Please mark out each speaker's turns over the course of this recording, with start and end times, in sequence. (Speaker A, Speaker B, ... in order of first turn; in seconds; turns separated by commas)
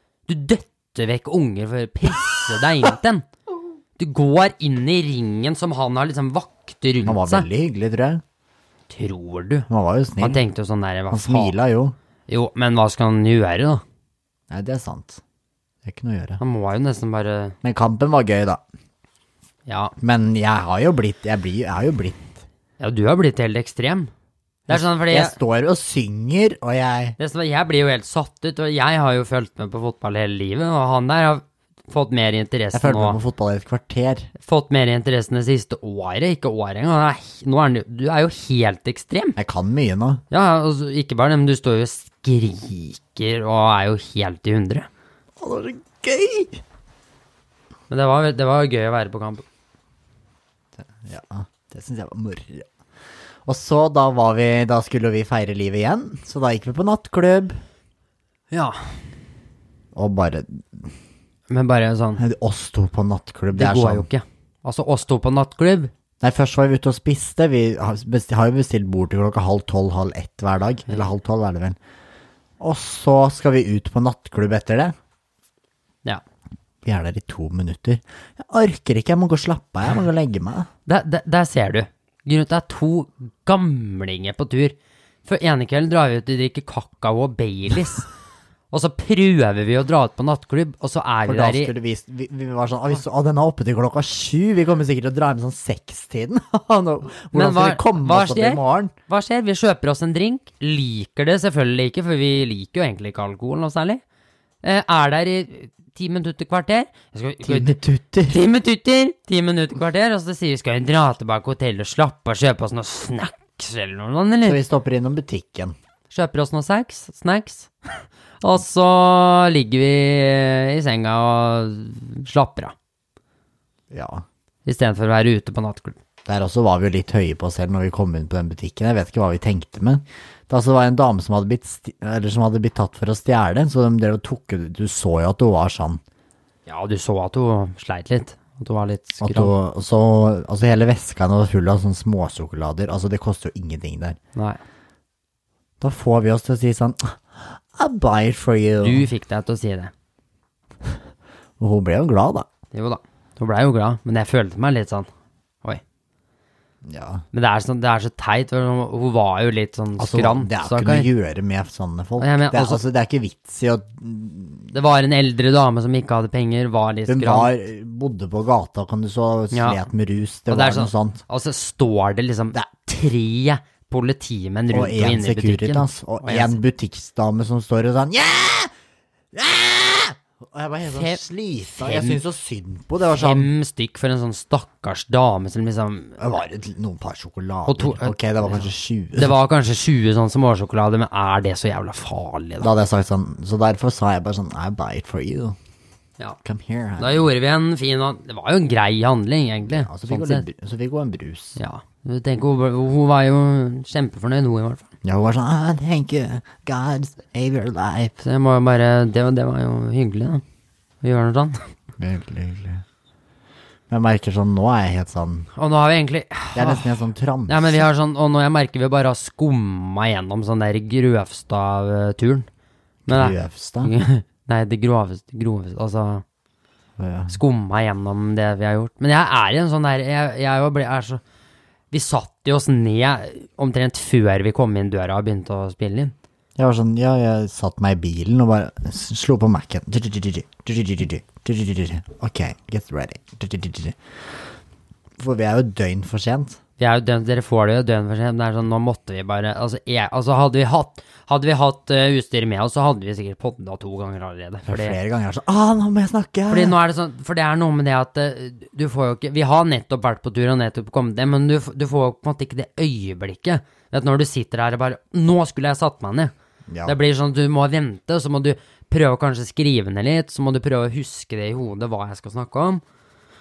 Speaker A: 0.3-3.3, Speaker A: 4.0-7.5, Speaker B: 7.0-8.2, Speaker A: 8.9-9.7, Speaker B: 9.7-10.4, Speaker A: 10.2-11.6, Speaker B: 11.1-12.0, Speaker A: 12.3-13.8, Speaker B: 14.5-15.2, Speaker B: 15.8-16.4, Speaker A: 16.4-17.6, Speaker B: 17.6-18.6, Speaker A: 19.7-19.9, Speaker B: 20.0-22.4, Speaker A: 22.8-24.1, Speaker B: 24.7-27.2, Speaker A: 24.7-25.4, Speaker A: 27.2-33.2, Speaker B: 32.7-34.3, Speaker A: 34.4-39.4, Speaker B: 39.4-40.2, Speaker A: 40.3-44.9, Speaker B: 45.4-46.6, Speaker A: 47.9-49.4, Speaker B: 50.8-52.7, Speaker B: 53.5-57.6, Speaker A: 58.5-58.8, Speaker B: 60.0-60.9, Speaker A: 61.5-62.2, Speaker B: 62.2-64.1, Speaker A: 63.5-65.9, Speaker B: 66.2-71.8, Speaker B: 72.6-74.9, Speaker B: 76.8-80.7, Speaker A: 80.9-88.1, Speaker A: 88.7-91.7, Speaker B: 91.3-98.9, Speaker A: 97.3-104.0, Speaker A: 104.6-114.6, Speaker B: 107.4-108.4, Speaker B: 114.5-115.8, Speaker A: 116.1-122.8, Speaker B: 123.9-124.2, Speaker A: 124.7-126.0, Speaker B: 126.3-136.0, Speaker A: 136.7-139.5, Speaker B: 139.2-144.2, Speaker B: 145.8-149.1, Speaker A: 148.8-149.9, Speaker B: 151.6-152.5, Speaker A: 152.7-155.1, Speaker B: 156.9-157.2, Speaker A: 157.3-161.1, Speaker B: 160.0-164.7, Speaker A: 162.2-162.8, Speaker A: 164.7-167.5, Speaker B: 167.1-171.2, Speaker A: 169.5-169.8, Speaker A: 170.5-176.6, Speaker B: 174.7-178.7, Speaker B: 179.3-183.5, Speaker A: 180.9-182.2, Speaker A: 183.1-186.2, Speaker B: 186.2-189.4, Speaker A: 187.7-192.7, Speaker B: 192.6-195.6, Speaker B: 196.4-197.3, Speaker A: 197.0-200.5, Speaker B: 199.7-201.6, Speaker A: 201.6-204.9, Speaker B: 205.0-208.2, Speaker A: 208.2-210.4, Speaker A: 211.0-211.7, Speaker B: 212.0-212.8, Speaker B: 213.9-215.5, Speaker A: 215.6-216.9, Speaker B: 216.5-217.9, Speaker A: 217.5-222.5, Speaker B: 223.1-223.9, Speaker A: 223.1-226.2, Speaker B: 227.0-227.4, Speaker A: 227.3-231.2, Speaker A: 231.9-236.2, Speaker B: 236.6-244.0, Speaker B: 245.2-246.6, Speaker A: 246.8-255.0, Speaker B: 254.7-256.8, Speaker A: 256.5-266.3, Speaker B: 266.7-266.9, Speaker A: 266.9-272.8